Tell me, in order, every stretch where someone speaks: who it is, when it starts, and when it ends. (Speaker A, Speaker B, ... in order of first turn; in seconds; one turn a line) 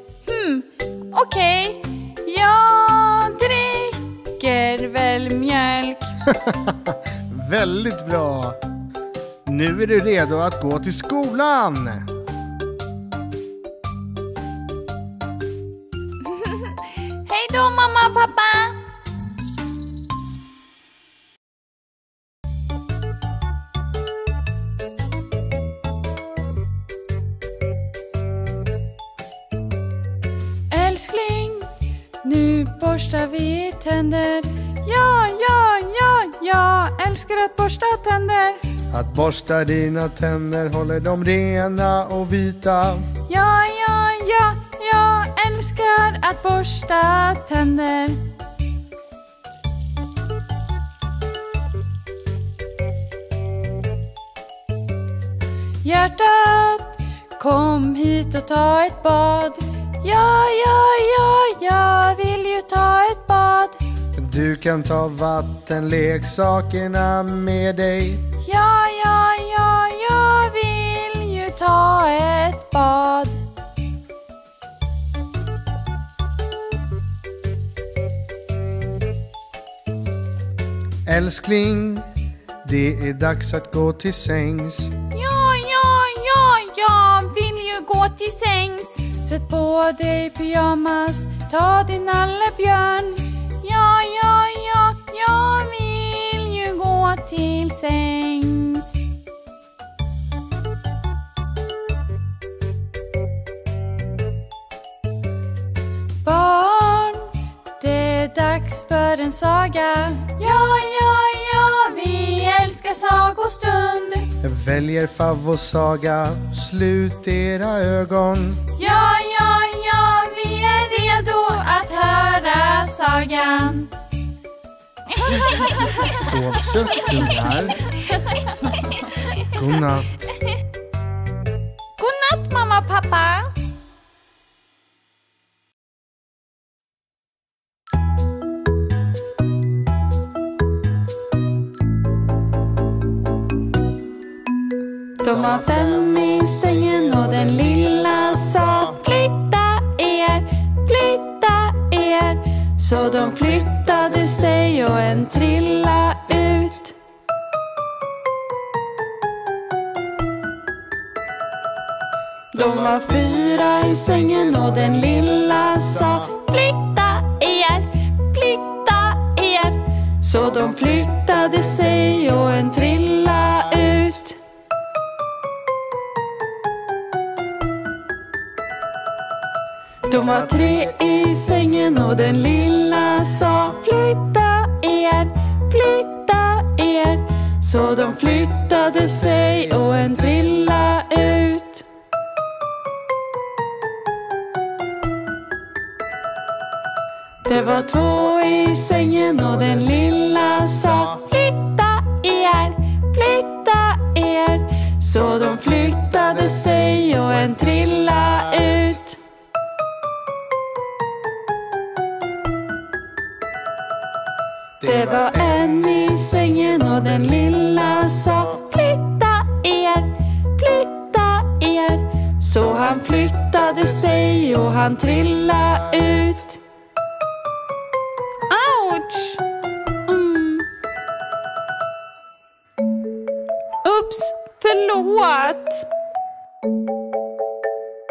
Speaker A: 0.3-6.1
Speaker B: 6.3-8.6
Speaker B: 9.5-12.1
Speaker A: 16.3-18.8
Speaker A: 30.7-31.7
Speaker A: 32.2-38.6
Speaker B: 38.9-43.1
Speaker A: 43.3-48.2
Speaker A: 55.8-63.8
Speaker B: 64.2-68.2
Speaker A: 68.4-73.4
Speaker B: 81.1-82.1
Speaker B: 82.6-84.9
Speaker A: 85.1-99.0
Speaker A: 106.2-114.3
Speaker B: 114.4-118.6
Speaker A: 118.7-123.9
Speaker A: 125.2-126.2
Speaker B: 126.0-127.9
Speaker B: 129.5-130.2
Speaker A: 132.0-133.6
Speaker A: 145.2-156.9
Speaker B: 145.3-149.0
Speaker B: 153.4-154.0
Speaker A: 162.5-174.4
Speaker A: 180.1-191.8
Speaker A: 197.4-209.2
Speaker A: 214.8-226.6
Speaker A: 228.5-229.4
Speaker A: 230.1-230.7
Speaker A: 233.8-235.9